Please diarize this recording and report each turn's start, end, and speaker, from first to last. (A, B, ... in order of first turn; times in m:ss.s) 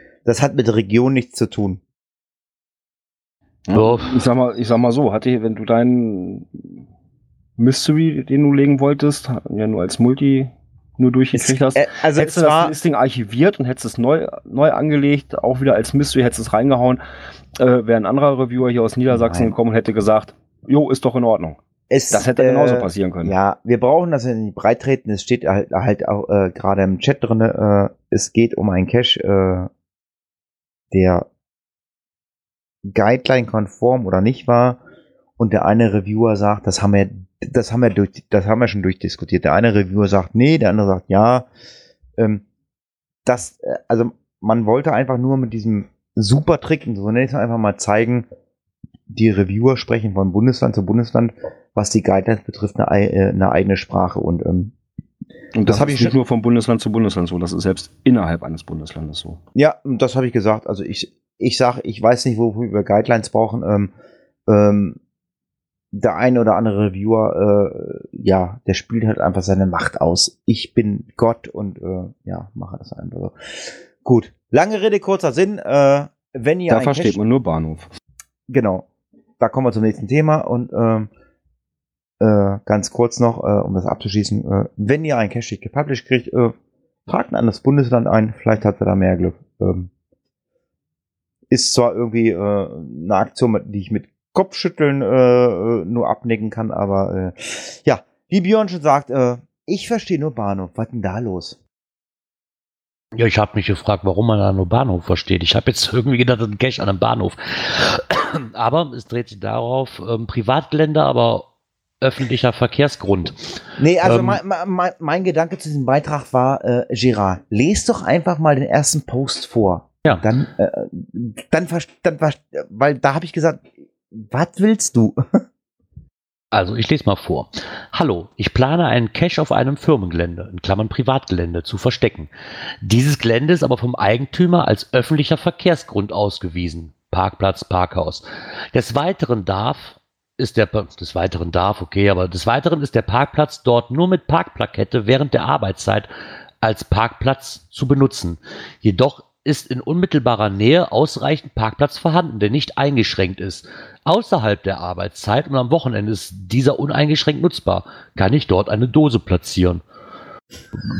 0:00.2-0:01.8 A
0:03.7-0:06.7 B
0:03.7-0:04.2 C
0:07.6-0:17.0 B
0:11.3-0:12.7 A
0:17.6-0:21.6 B
0:19.1-0:19.6 A
0:21.9-0:29.7 A
0:22.1-0:23.3 B
0:30.9-0:31.3 A
0:32.8-0:34.8 A
0:35.4-0:41.5 A
0:42.2-0:42.4 A
0:43.2-0:48.2 A
0:49.1-0:54.7 A
0:55.5-0:59.4 B
0:55.6-0:56.2 A
0:59.5-1:03.9 A
1:04.5-1:05.0 A
1:05.9-1:17.2 A
1:16.7-1:17.9 B
1:18.5-1:18.8 A
1:19.4-1:21.1 A
1:22.2-1:26.5 A
1:27.1-1:29.9 A
1:31.5-1:41.6 A
1:43.1-1:51.5 C
1:52.0-1:53.4 C
1:53.8-2:05.4 A
1:54.0-1:54.4 C
2:06.5-2:12.3 C
2:12.8-2:26.1 C
2:26.6-2:39.8 C